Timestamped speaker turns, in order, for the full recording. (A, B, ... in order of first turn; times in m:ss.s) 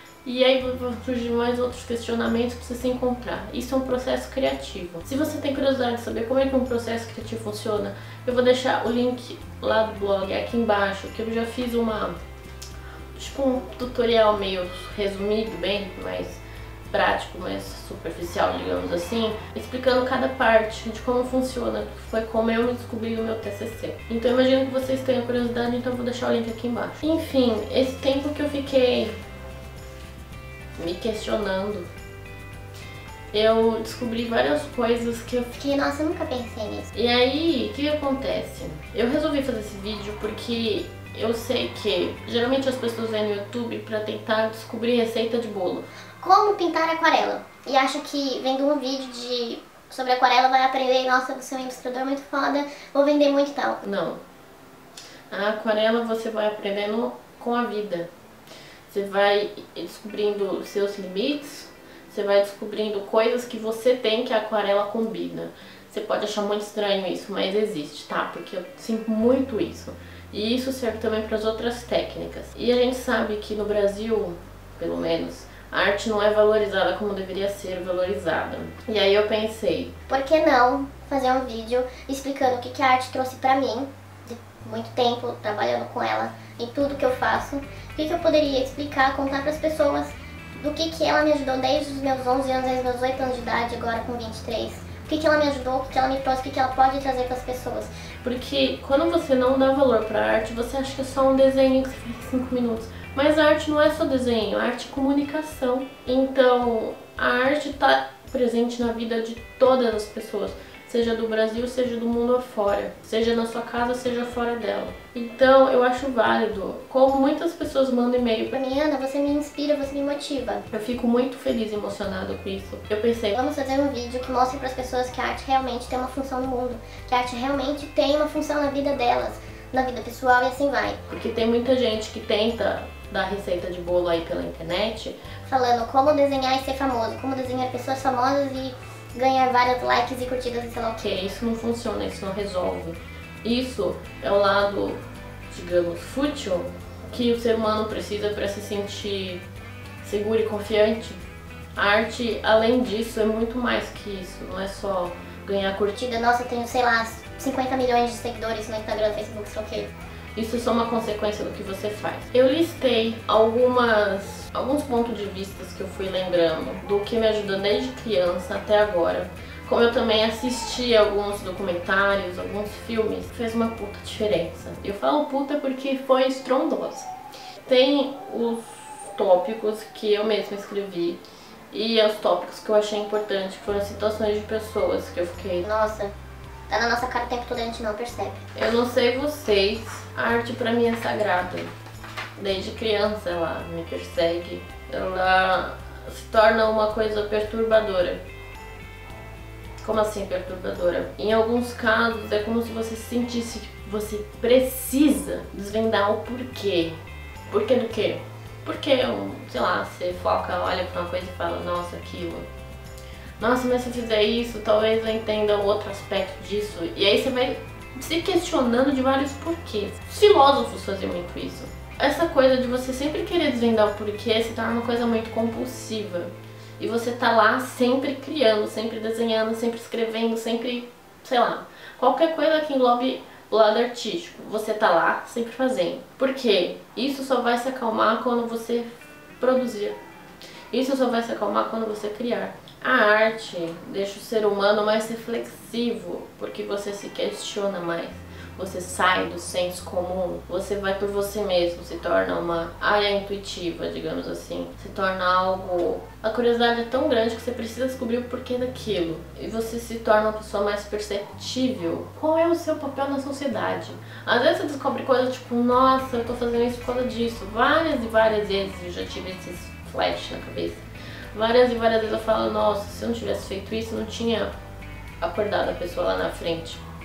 0:00.2-0:12.2 A
0:13.1-0:29.2 A
0:30.8-0:31.9 A
0:33.3-0:35.6 A
0:35.6-0:36.9 B
0:36.9-0:45.8 A
0:46.2-0:53.8 B
0:53.8-0:54.2 A
0:55.3-0:58.1 A
0:58.9-1:19.9 A
1:20.1-1:37.9 B
1:38.2-1:58.5 A
1:58.5-2:00.6 B
2:00.7-2:03.3 A
2:03.3-2:11.0 B
2:11.1-2:15.2 A
2:15.4-2:21.0 B
2:20.9-2:25.0 A
2:25.5-2:29.4 A
2:30.0-2:31.2 A
2:31.8-2:36.0 A
2:36.0-2:39.9 B
2:40.3-2:57.1 A
2:57.6-3:01.2 A
3:01.7-3:05.6 A
3:05.6-3:06.1 B
3:06.7-3:08.4 B
3:08.5-3:11.7 A
3:12.4-3:18.2 A
3:19.8-3:27.0 A
3:27.5-3:32.5 A
3:33.4-4:00.0 A
4:00.7-4:34.5 A
4:35.2-4:36.8 A